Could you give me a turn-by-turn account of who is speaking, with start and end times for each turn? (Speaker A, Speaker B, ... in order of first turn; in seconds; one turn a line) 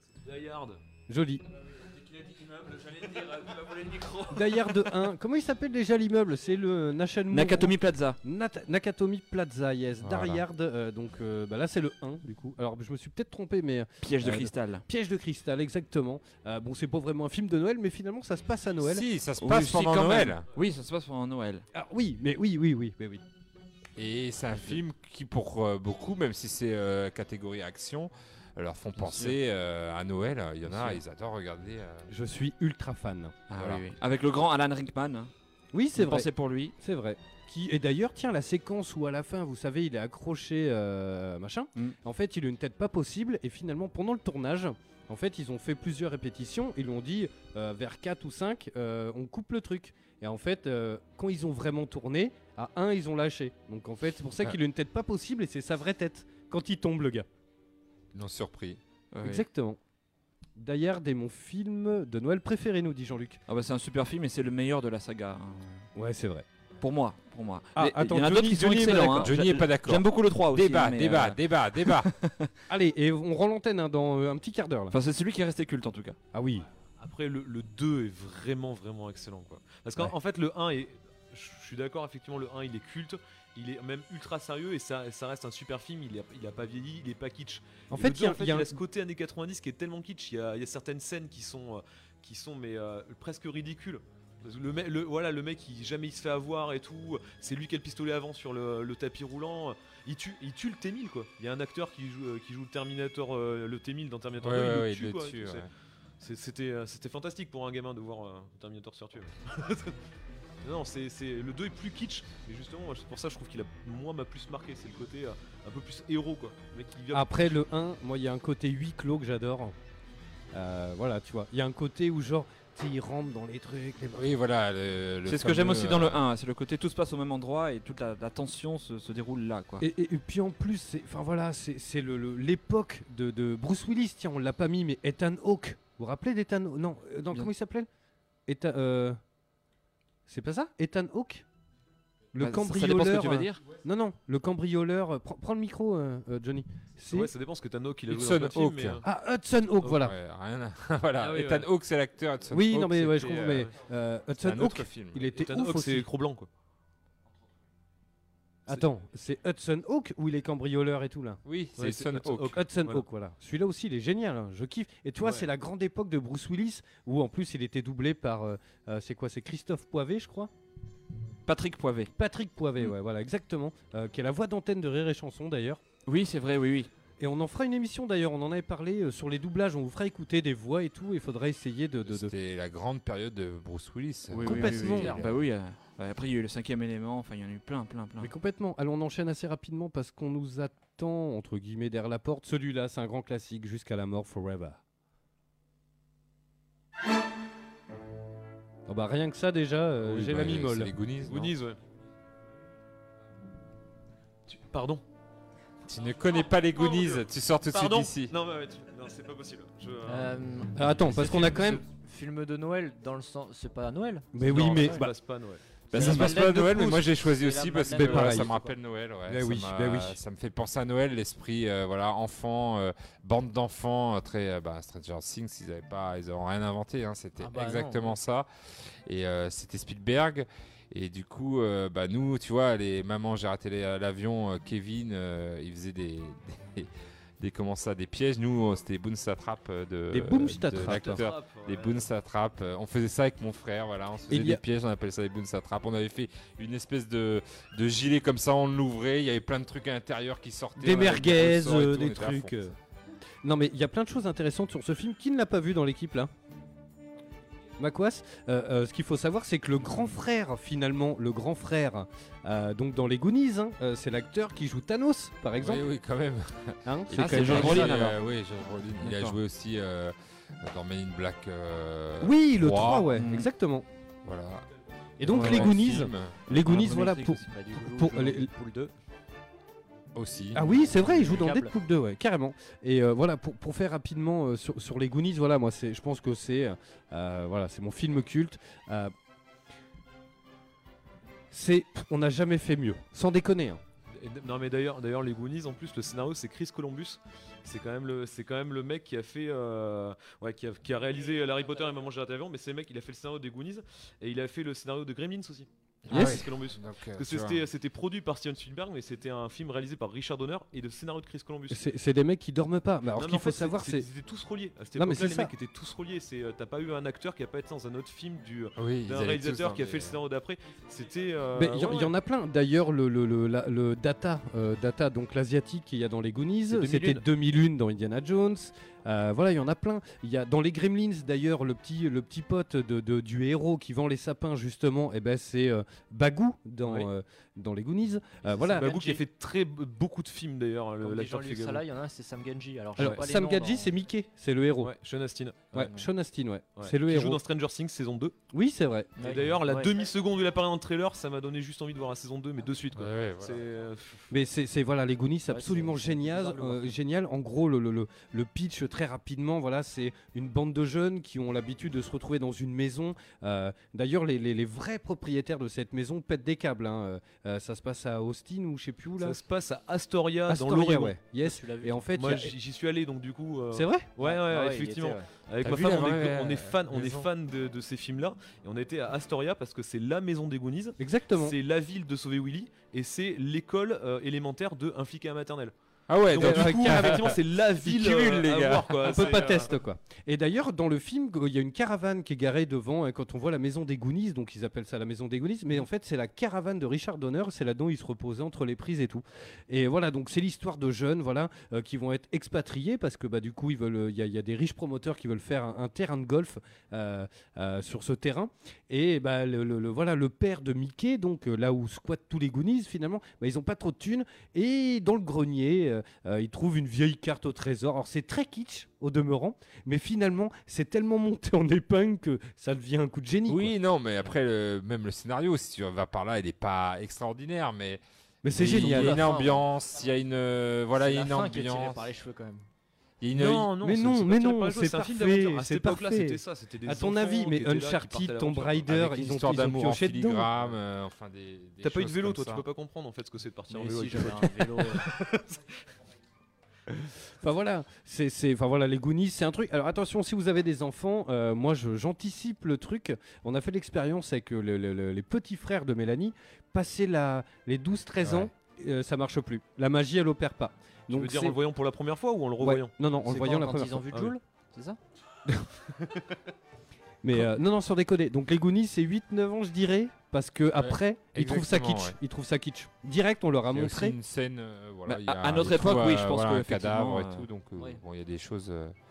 Speaker A: 0.2-0.8
Speaker B: 1.1-1.4
Speaker B: 4.3-19.1
Speaker C: 7.3-8.2
Speaker D: 10.0-10.4
Speaker C: 14.0-14.8
Speaker D: 18.9-20.5
Speaker C: 19.4-21.6
Speaker B: 21.7-23.2
Speaker D: 24.0-32.1
Speaker C: 29.0-29.4
Speaker C: 30.7-31.0
Speaker B: 32.1-33.4
Speaker D: 33.5-33.9
Speaker C: 33.5-35.3
Speaker B: 35.7-57.3
Speaker C: 36.0-36.8
Speaker D: 58.1-58.8
Speaker C: 59.1-59.4
Speaker B: 59.2-59.8
Speaker B: 60.6-63.4
Speaker C: 63.5-65.9
Speaker B: 66.0-66.5
Speaker C: 66.8-72.5
Speaker B: 67.8-69.4
Speaker D: 69.1-72.1
Speaker B: 72.7-75.0
Speaker C: 74.9-76.2
Speaker B: 76.3-76.7
Speaker A: 77.0-105.7
Speaker B: 87.9-88.8
Speaker D: 104.4-105.7
Speaker A: 106.2-110.0
Speaker A: 110.6-117.6
Speaker B: 117.1-119.8
Speaker B: 120.5-124.3
Speaker D: 124.2-126.2
Speaker C: 125.3-129.8
Speaker B: 129.8-137.9
Speaker B: 138.5-139.2
Speaker B: 140.3-141.4
Speaker B: 142.3-147.3
Speaker C: 142.4-143.6
Speaker A: 147.1-149.0
Speaker D: 148.1-149.0
Speaker B: 149.0-150.1
Speaker D: 149.9-153.7
Speaker A: 151.2-151.7
Speaker B: 152.5-156.1
Speaker D: 154.4-155.2
Speaker A: 155.3-156.5
Speaker B: 158.7-161.4
Speaker D: 161.5-162.6
Speaker A: 161.8-163.0
Speaker B: 162.6-170.5
Speaker A: 165.2-165.5
Speaker C: 171.5-172.1
Speaker B: 172.2-175.8
Speaker C: 176.1-176.9
Speaker B: 177.2-182.3
Speaker D: 182.1-185.4
Speaker C: 184.3-188.3
Speaker E: 184.4-185.2
Speaker B: 184.4-185.2
Speaker B: 188.2-194.8
Speaker B: 198.9-200.9
Speaker D: 200.0-201.5
Speaker A: 201.2-201.8
Speaker A: 204.5-205.0
Speaker D: 205.9-208.3
Speaker A: 206.7-210.3
Speaker E: 210.1-215.0
Speaker B: 210.8-211.8
Speaker B: 214.3-215.2
Speaker A: 214.4-215.6
Speaker E: 215.9-218.8
Speaker D: 215.9-228.5
Speaker C: 216.0-216.2
Speaker B: 217.9-218.5
Speaker B: 219.3-220.2
Speaker E: 227.4-228.2
Speaker D: 229.1-236.9
Speaker D: 237.4-252.7
Speaker B: 240.1-241.2
Speaker A: 240.8-242.1
Speaker B: 244.3-244.6
Speaker B: 250.8-252.8
Speaker B: 253.4-256.3
Speaker B: 257.8-265.9
Speaker D: 265.6-273.3
Speaker B: 266.9-268.1
Speaker C: 267.1-268.2
Speaker C: 269.0-269.4
Speaker B: 272.2-273.9
Speaker C: 273.1-273.5
Speaker D: 274.2-274.6
Speaker B: 275.2-278.5
Speaker D: 275.2-276.5
Speaker C: 275.4-275.7
Speaker C: 276.6-277.4
Speaker E: 276.7-278.9
Speaker D: 280.1-280.9
Speaker B: 280.5-289.1
Speaker E: 280.9-281.8
Speaker B: 291.5-293.8
Speaker A: 294.1-311.9
Speaker D: 306.1-307.6
Speaker B: 306.1-306.4
Speaker B: 311.7-314.1
Speaker A: 313.1-322.1
Speaker B: 315.0-315.5
Speaker D: 318.8-320.2
Speaker B: 321.6-339.0
Speaker A: 326.7-327.2
Speaker E: 338.5-339.2
Speaker A: 338.8-341.8
Speaker E: 341.0-343.9
Speaker B: 343.0-344.9
Speaker A: 344.8-345.9
Speaker B: 345.7-347.4
Speaker E: 345.8-346.1
Speaker A: 346.8-348.4
Speaker B: 348.5-349.1
Speaker E: 349.2-349.9
Speaker A: 349.2-354.3
Speaker D: 352.9-353.6
Speaker B: 354.3-369.4
Speaker E: 355.5-356.9
Speaker A: 369.2-371.2
Speaker B: 370.5-372.5
Speaker E: 371.4-372.1
Speaker A: 372.1-385.7
Speaker B: 373.7-374.1
Speaker E: 374.2-375.3
Speaker D: 375.6-377.3
Speaker B: 381.0-381.6
Speaker D: 386.1-389.4
Speaker A: 386.3-389.7
Speaker B: 386.3-387.3
Speaker B: 389.0-423.8
Speaker D: 423.5-428.0
Speaker B: 428.4-429.2
Speaker D: 428.5-432.1
Speaker E: 428.6-429.6
Speaker E: 430.9-432.7
Speaker D: 433.2-433.7
Speaker A: 433.4-439.0
Speaker B: 433.8-440.5
Speaker D: 438.9-442.6
Speaker A: 441.8-445.6
Speaker E: 443.7-445.1
Speaker B: 447.4-461.6
Speaker D: 458.2-458.5
Speaker A: 461.1-462.9
Speaker B: 462.6-464.1
Speaker E: 463.2-465.0
Speaker B: 467.2-474.2
Speaker D: 470.8-472.2
Speaker D: 473.7-478.9
Speaker C: 475.1-477.5